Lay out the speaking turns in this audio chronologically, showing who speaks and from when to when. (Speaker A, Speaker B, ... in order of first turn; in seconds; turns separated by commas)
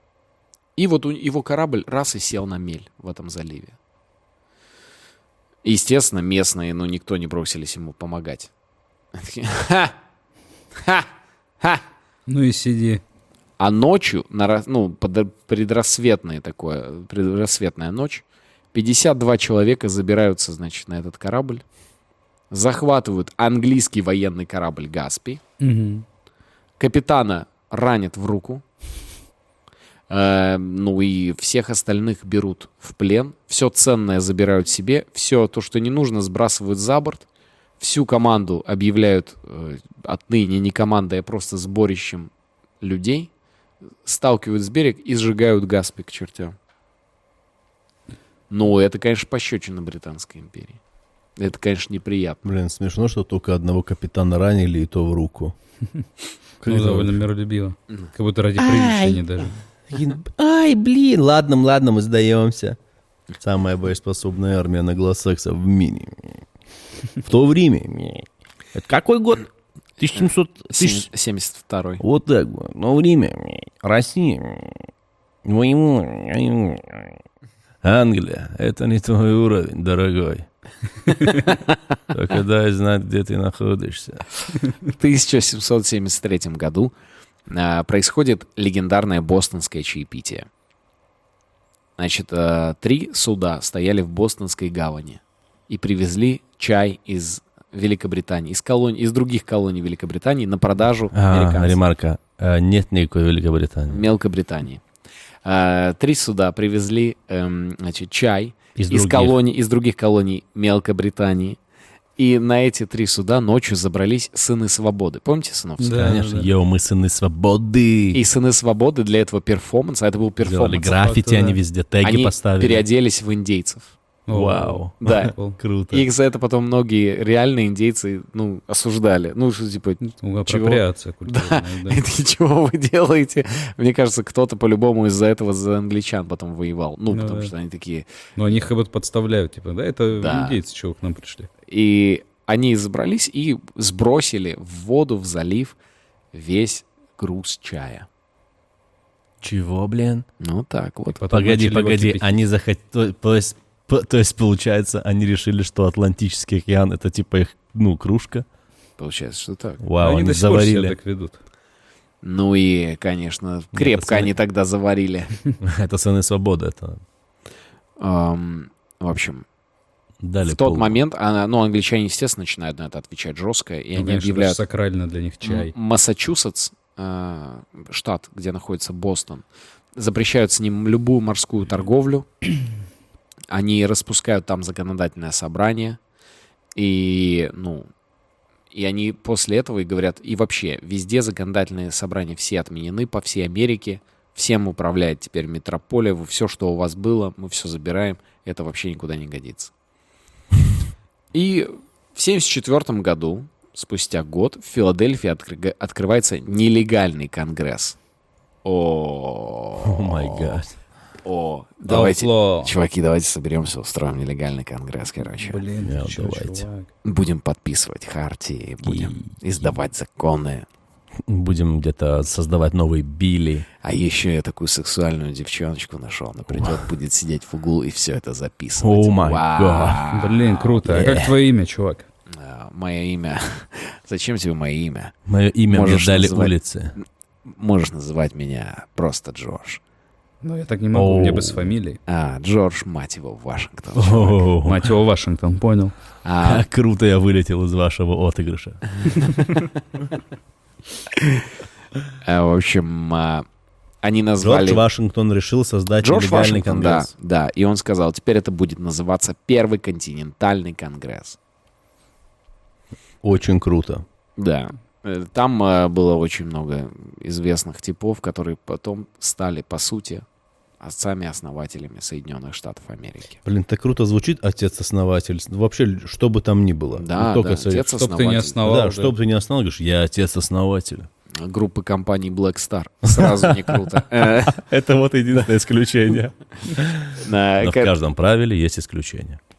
Speaker A: 0.8-3.8, Speaker A: 5.6-8.5, Speaker A: 9.1-9.9, Speaker A: 10.8-11.1, Speaker B: 12.3-13.0, Speaker A: 13.6-21.6, Speaker A: 22.5-25.4, Speaker B: 25.6-26.0, Speaker A: 26.8-28.6, Speaker A: 30.1-37.2, Speaker A: 37.8-42.3, Speaker A: 42.8-43.3, Speaker A: 44.0-46.5, Speaker A: 48.5-50.8, Speaker A: 51.4-52.5, Speaker C: 52.4-55.5, Speaker C: 56.6-57.2, Speaker B: 56.6-59.6, Speaker C: 58.6-59.2, Speaker C: 59.9-62.8, Speaker C: 63.4-66.4, Speaker C: 67.2-71.1, Speaker A: 70.2-72.0, Speaker C: 72.0-74.9, Speaker C: 75.4-77.2, Speaker C: 77.8-80.5, Speaker C: 82.1-84.2, Speaker A: 84.8-86.9, Speaker A: 87.5-90.5, Speaker A: 92.0-101.8, Speaker C: 101.1-104.1, Speaker A: 103.9-104.8, Speaker A: 105.4-111.6, Speaker C: 108.8-109.4, Speaker A: 112.2-116.1, Speaker B: 115.8-116.5, Speaker C: 116.0-118.2, Speaker A: 118.1-121.2, Speaker C: 120.4-122.8, Speaker B: 121.2-121.6, Speaker A: 122.0-123.9, Speaker B: 124.3-125.6, Speaker C: 124.3-126.0, Speaker A: 125.0-125.3, Speaker A: 125.9-138.7, Speaker B: 130.0-132.0, Speaker B: 137.1-137.5, Speaker B: 138.4-141.5, Speaker A: 140.2-140.6, Speaker A: 141.7-145.8, Speaker A: 146.3-148.1, Speaker C: 149.4-150.2, Speaker A: 150.4-151.2, Speaker B: 151.2-152.4, Speaker C: 151.3-158.4, Speaker A: 159.0-159.8, Speaker C: 159.8-161.0, Speaker B: 160.0-161.4, Speaker A: 162.2-165.4, Speaker C: 163.7-164.3, Speaker C: 165.6-167.0, Speaker A: 168.0-169.4, Speaker C: 170.2-171.0, Speaker A: 170.4-174.6, Speaker B: 173.9-175.7, Speaker A: 175.4-182.3, Speaker A: 183.5-186.0, Speaker A: 186.7-187.9, Speaker A: 188.7-199.7, Speaker A: 201.3-208.0, Speaker A: 208.6-210.6, Speaker C: 209.8-210.8, Speaker A: 211.2-215.6, Speaker B: 211.9-212.7, Speaker B: 215.3-216.9, Speaker C: 215.8-216.7, Speaker A: 217.0-220.7, Speaker B: 218.8-219.3, Speaker C: 221.2-223.7, Speaker A: 223.8-230.9, Speaker C: 226.5-226.8, Speaker C: 228.8-230.0, Speaker B: 230.1-232.1, Speaker C: 230.9-231.3, Speaker A: 232.3-235.1, Speaker C: 235.3-236.9, Speaker A: 235.7-239.8, Speaker B: 240.4-242.0, Speaker C: 240.9-241.7, Speaker A: 242.1-244.5, Speaker C: 243.9-244.9, Speaker B: 244.6-245.9, Speaker A: 246.2-246.6, Speaker C: 246.4-249.3, Speaker A: 251.2-251.4, Speaker A: 252.2-253.4, Speaker A: 254.0-254.8, Speaker C: 254.4-257.1, Speaker A: 256.0-261.4, Speaker C: 263.2-264.0, Speaker A: 264.4-270.2, Speaker A: 270.8-273.4, Speaker C: 273.4-277.9, Speaker A: 276.9-278.6, Speaker B: 278.0-279.1, Speaker C: 278.6-281.1, Speaker A: 281.4-284.6, Speaker C: 283.1-283.7, Speaker C: 284.5-289.4, Speaker A: 287.2-287.9